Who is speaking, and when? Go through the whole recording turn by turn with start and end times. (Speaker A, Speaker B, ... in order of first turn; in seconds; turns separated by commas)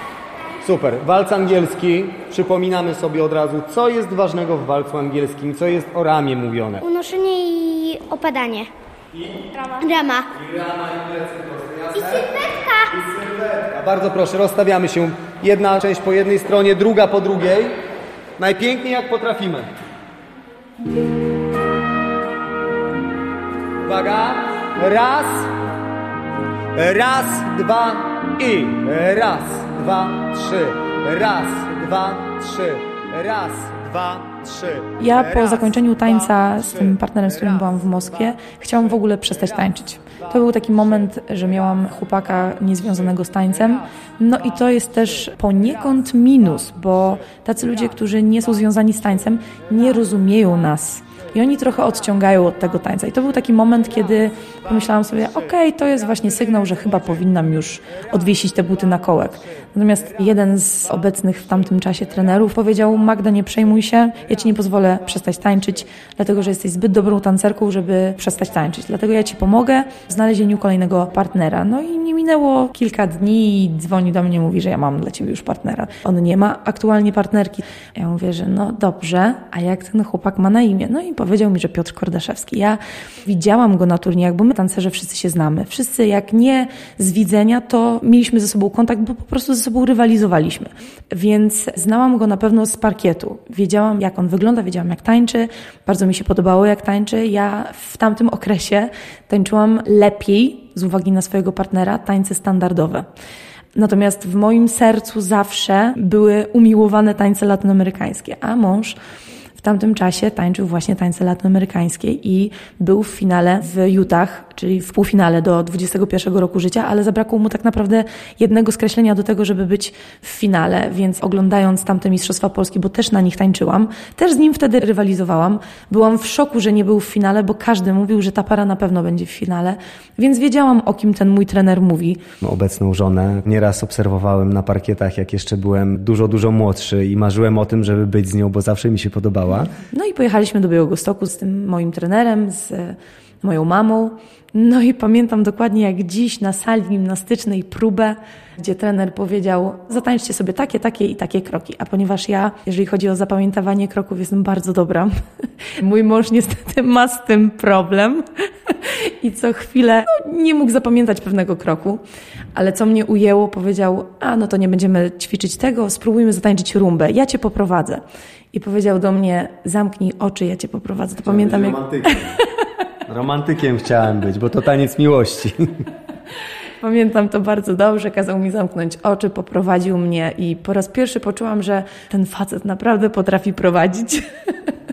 Speaker A: 0.6-6.8, Speaker B: 6.8-8.7, Speaker B: 9.7-10.3, Speaker A: 10.4-12.3, Speaker B: 12.0-12.9, Speaker A: 12.9-17.8, Speaker A: 18.4-19.7, Speaker A: 23.8-25.6, Speaker A: 26.8-37.7, Speaker C: 35.0-103.1, Speaker C: 103.8-109.0, Speaker C: 109.6-132.2, Speaker A: 132.4-139.8, Speaker C: 139.9-155.1, Speaker C: 155.8-162.0, Speaker C: 162.6-171.8, Speaker A: 171.2-172.4, Speaker A: 173.1-175.7, Speaker C: 176.8-184.2